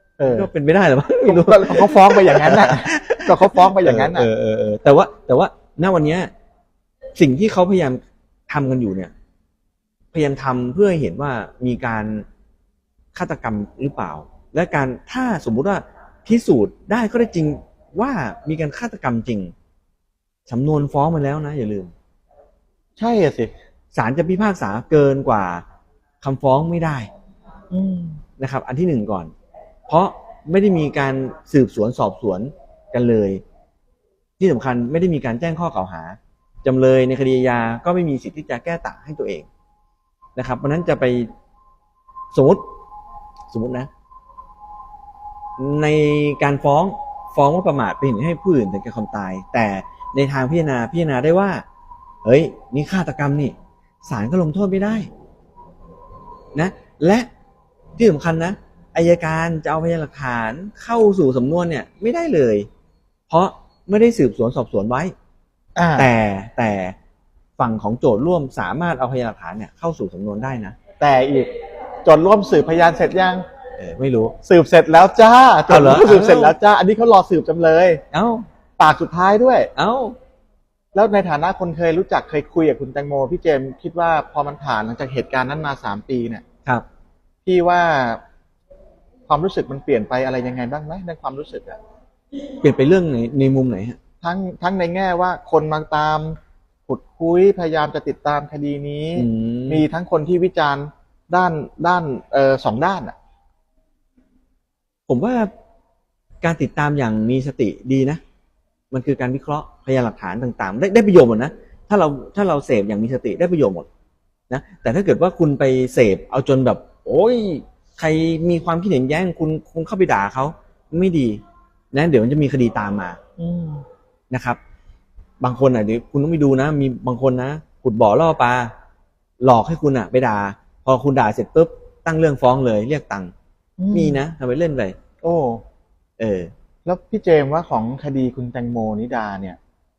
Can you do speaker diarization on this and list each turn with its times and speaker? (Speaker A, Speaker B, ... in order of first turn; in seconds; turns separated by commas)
Speaker A: 0.2-0.5, Speaker B: 0.3-6.3, Speaker A: 1.2-4.3, Speaker B: 7.2-9.1, Speaker B: 10.1-12.2, Speaker B: 13.1-19.5, Speaker B: 20.5-21.9, Speaker A: 22.9-23.5, Speaker B: 23.9-25.6, Speaker B: 26.2-27.1, Speaker A: 27.7-28.2, Speaker B: 28.4-29.3, Speaker B: 29.9-33.4, Speaker B: 34.4-39.5, Speaker B: 40.4-41.3, Speaker B: 42.3-42.6, Speaker B: 43.5-43.9, Speaker B: 45.6-51.6, Speaker B: 52.2-55.1, Speaker B: 56.5-57.3, Speaker B: 58.0-62.7, Speaker B: 63.3-65.1, Speaker A: 65.8-66.1, Speaker B: 66.0-66.9, Speaker B: 67.6-70.8, Speaker A: 71.0-71.5, Speaker A: 72.0-73.4, Speaker B: 73.8-74.3, Speaker A: 74.4-78.0, Speaker B: 75.7-76.5, Speaker B: 78.1-78.5, Speaker A: 78.8-79.7, Speaker B: 79.8-80.2, Speaker A: 80.9-86.4, Speaker A: 87.4-88.2, Speaker A: 89.3-91.8, Speaker B: 92.6-94.0, Speaker A: 94.2-103.1, Speaker B: 99.2-99.8, Speaker B: 105.1-105.5, Speaker B: 106.4-108.2, Speaker B: 108.9-113.9, Speaker B: 114.5-123.2, Speaker A: 123.4-123.8, Speaker B: 124.3-124.6, Speaker B: 125.4-128.7, Speaker B: 129.4-133.3, Speaker A: 133.8-134.2, Speaker B: 133.9-134.9, Speaker A: 135.2-135.6, Speaker B: 136.2-136.5, Speaker A: 136.8-139.6